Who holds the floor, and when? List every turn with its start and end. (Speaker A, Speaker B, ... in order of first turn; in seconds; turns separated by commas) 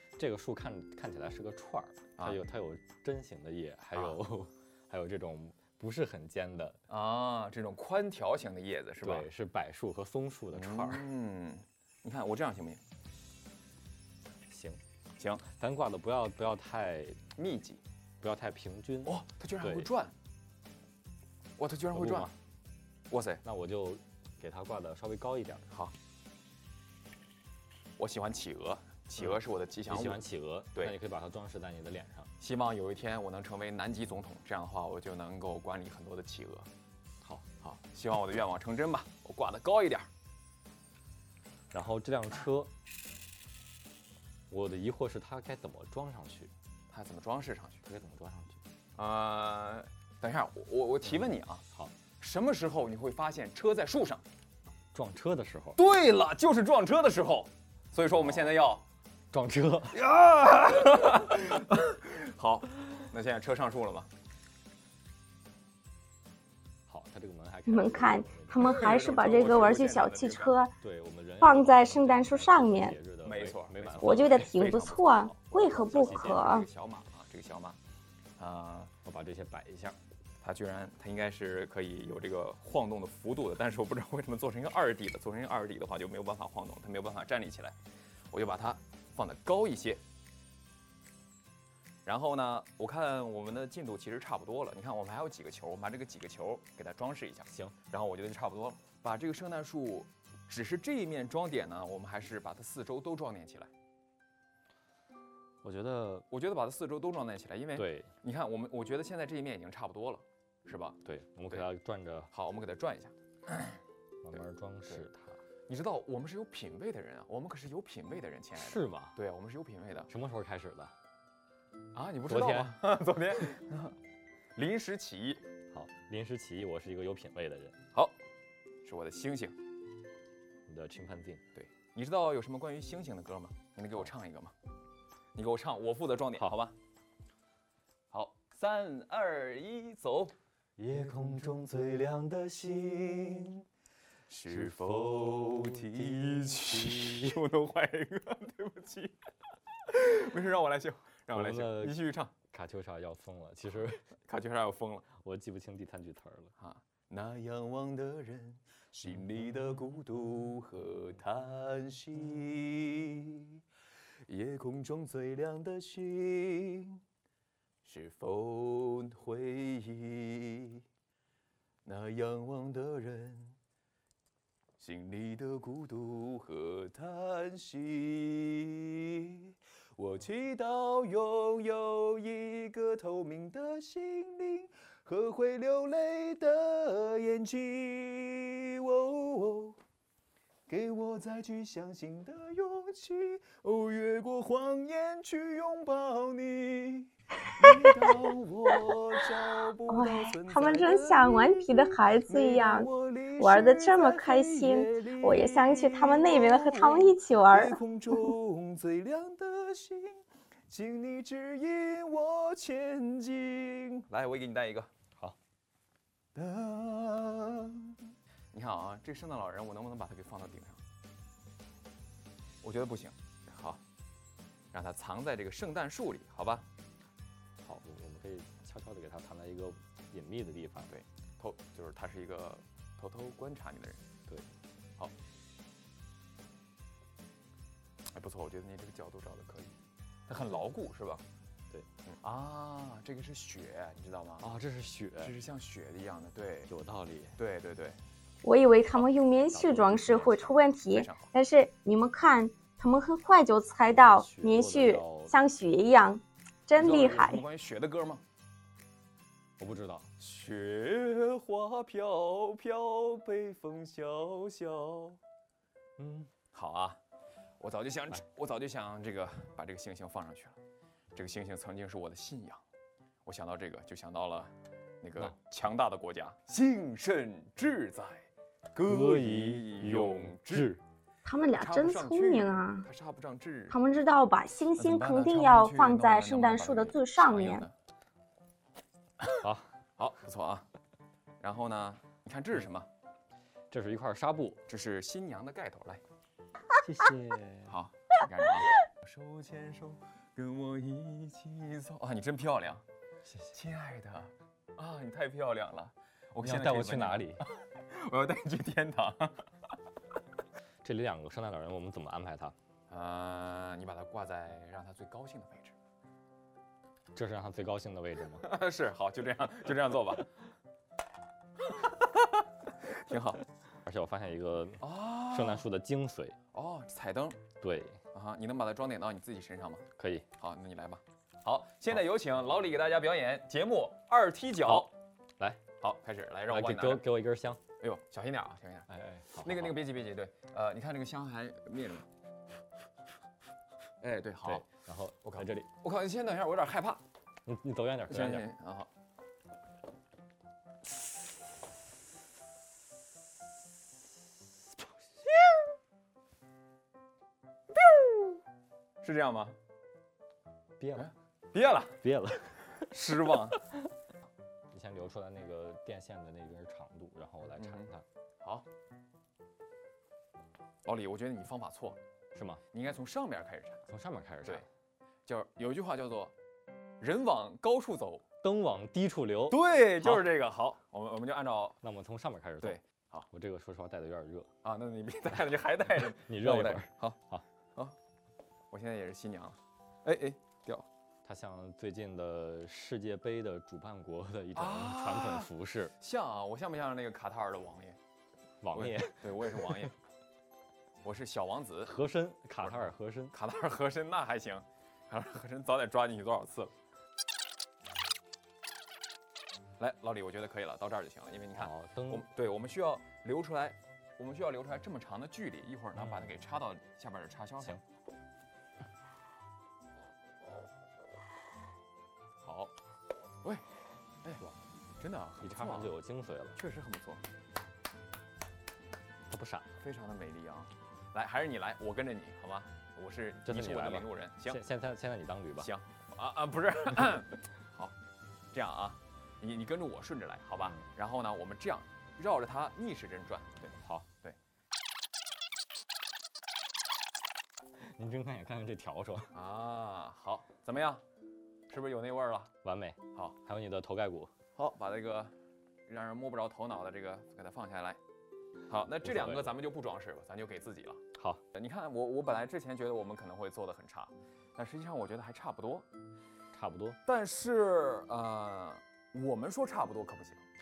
Speaker A: 0.2-6.8, Speaker B: 2.2-2.4, Speaker B: 3.9-4.2, Speaker B: 6.9-9.3, Speaker A: 9.0-11.1, Speaker B: 10.5-12.8, Speaker A: 14.5-14.8, Speaker B: 15.2-15.4, Speaker A: 15.4-17.2, Speaker B: 17.4-17.8, Speaker A: 18.2-19.9, Speaker B: 19.0-20.1, Speaker B: 21.6-22.3, Speaker A: 21.9-22.3, Speaker B: 23.1-23.4, Speaker A: 23.4-25.7, Speaker B: 28.0-30.2, Speaker A: 29.9-32.3, Speaker B: 32.4-36.7, Speaker B: 37.6-40.1, Speaker A: 41.7-42.7, Speaker A: 44.5-46.5, Speaker B: 46.9-47.8, Speaker A: 47.8-48.6, Speaker B: 49.0-51.6, Speaker A: 51.0-51.9, Speaker B: 52.2-54.2, Speaker A: 54.9-55.8, Speaker B: 55.8-58.8, Speaker A: 59.3-60.0, Speaker B: 59.9-64.1, Speaker A: 66.9-68.8, Speaker C: 67.7-70.7, Speaker B: 68.6-70.6, Speaker A: 70.8-74.5, Speaker C: 71.4-73.0, Speaker B: 73.2-77.8, Speaker C: 74.0-76.7, Speaker A: 75.7-76.4, Speaker B: 78.4-78.9, Speaker A: 79.0-80.0, Speaker B: 80.4-87.8, Speaker B: 88.3-90.0, Speaker B: 92.0-103.7, Speaker A: 97.5-97.8, Speaker A: 105.6-106.2, Speaker B: 106.3-111.7, Speaker A: 107.8-108.1, Speaker A: 111.0-112.3, Speaker B: 112.3-113.8, Speaker A: 114.2-115.4, Speaker B: 114.3-115.0, Speaker B: 115.7-120.1, Speaker A: 118.6-119.2, Speaker A: 120.1-120.9, Speaker B: 121.9-124.0, Speaker A: 122.3-122.8, Speaker B: 124.5-125.4, Speaker A: 125.7-127.8, Speaker B: 128.8-129.6, Speaker A: 130.7-131.4, Speaker B: 131.5-134.5, Speaker B: 135.3-136.7, Speaker B: 138.1-140.3, Speaker A: 140.8-143.6, Speaker B: 144.3-149.2, Speaker A: 144.5-147.4, Speaker B: 149.8-152.3, Speaker A: 151.3-152.0, Speaker A: 152.5-154.0, Speaker B: 154.3-155.1, Speaker A: 155.2-156.5, Speaker B: 156.6-163.6, Speaker B: 164.3-167.0, Speaker B: 167.8-170.8, Speaker B: 171.8-173.6, Speaker B: 174.8-189.8, Speaker B: 190.7-214.9, Speaker C: 197.6-198.2, Speaker C: 199.9-207.8, Speaker B: 216.3-220.8, Speaker B: 222.6-223.8, Speaker B: 224.7-226.7, Speaker A: 227.6-230.9, Speaker B: 230.9-234.0, Speaker B: 238.1-239.8, Speaker B: 240.3-241.2, Speaker B: 242.0-244.5, Speaker A: 244.4-245.3, Speaker B: 245.2-246.7, Speaker A: 246.7-247.3, Speaker B: 247.4-248.0, Speaker C: 248.4-257.4, Speaker A: 249.5-250.5, Speaker B: 250.9-251.3, Speaker A: 253.9-255.3, Speaker B: 256.7-258.2, Speaker A: 259.6-260.1, Speaker B: 260.2-265.2, Speaker A: 266.0-266.3, Speaker B: 266.5-267.0, Speaker B: 267.6-270.6, Speaker B: 271.1-272.6, Speaker B: 273.2-280.8, Speaker A: 278.8-280.8, Speaker C: 281.2-282.9, Speaker B: 281.6-283.8, Speaker C: 283.7-287.6, Speaker B: 284.8-287.7, Speaker A: 289.4-289.7, Speaker B: 290.0-290.6, Speaker B: 291.4-292.9, Speaker A: 293.7-294.6, Speaker B: 294.7-296.0, Speaker A: 296.8-297.7, Speaker B: 297.7-302.8, Speaker B: 303.5-309.5, Speaker A: 306.4-307.4, Speaker A: 310.8-312.5, Speaker B: 312.9-315.8, Speaker A: 317.1-318.4, Speaker B: 318.4-320.3, Speaker B: 321.6-323.4, Speaker A: 323.8-326.4, Speaker B: 324.8-325.6, Speaker B: 326.5-327.4, Speaker A: 327.6-328.0, Speaker B: 328.1-334.9, Speaker A: 330.0-330.2, Speaker A: 334.6-335.6, Speaker B: 335.8-337.1, Speaker A: 336.5-337.6, Speaker B: 337.8-338.9, Speaker A: 338.9-339.8, Speaker B: 339.4-342.1, Speaker B: 344.0-344.6, Speaker A: 344.4-345.7, Speaker B: 345.2-347.0, Speaker A: 347.4-348.4, Speaker B: 348.1-348.9, Speaker B: 357.7-358.4, Speaker B: 359.0-359.6, Speaker A: 360.8-361.1, Speaker B: 360.9-362.0, Speaker A: 362.0-362.8, Speaker B: 362.8-363.6, Speaker A: 364.7-368.0, Speaker B: 367.6-367.9, Speaker B: 368.4-368.6, Speaker B: 370.8-372.0, Speaker A: 372.3-372.6, Speaker B: 372.7-373.8, Speaker A: 373.9-374.6, Speaker B: 375.2-376.3, Speaker B: 377.0-378.2, Speaker A: 378.4-380.2, Speaker B: 379.5-381.8, Speaker A: 381.8-382.8, Speaker B: 382.6-383.3, Speaker A: 383.3-384.5, Speaker B: 384.6-387.2, Speaker A: 386.2-387.4, Speaker B: 388.7-390.9, Speaker A: 391.2-395.9, Speaker B: 394.5-398.0, Speaker A: 398.6-399.9, Speaker B: 398.7-399.9, Speaker B: 401.0-401.9, Speaker A: 401.9-403.3, Speaker B: 402.6-406.7, Speaker B: 409.8-417.8, Speaker A: 411.5-412.3, Speaker A: 415.9-416.3, Speaker B: 422.4-422.7, Speaker B: 425.0-425.9, Speaker A: 425.4-426.6, Speaker B: 426.5-427.2, Speaker A: 429.3-429.7, Speaker B: 429.8-434.6, Speaker A: 433.5-435.7, Speaker B: 435.6-437.9, Speaker B: 438.5-444.4, Speaker A: 447.8-449.3, Speaker B: 449.3-451.0, Speaker B: 451.7-452.5, Speaker A: 452.6-454.3, Speaker B: 454.5-455.3, Speaker B: 455.9-458.0, Speaker B: 458.7-465.9, Speaker A: 459.0-459.5, Speaker A: 461.1-461.4, Speaker A: 466.5-467.0, Speaker B: 467.1-470.4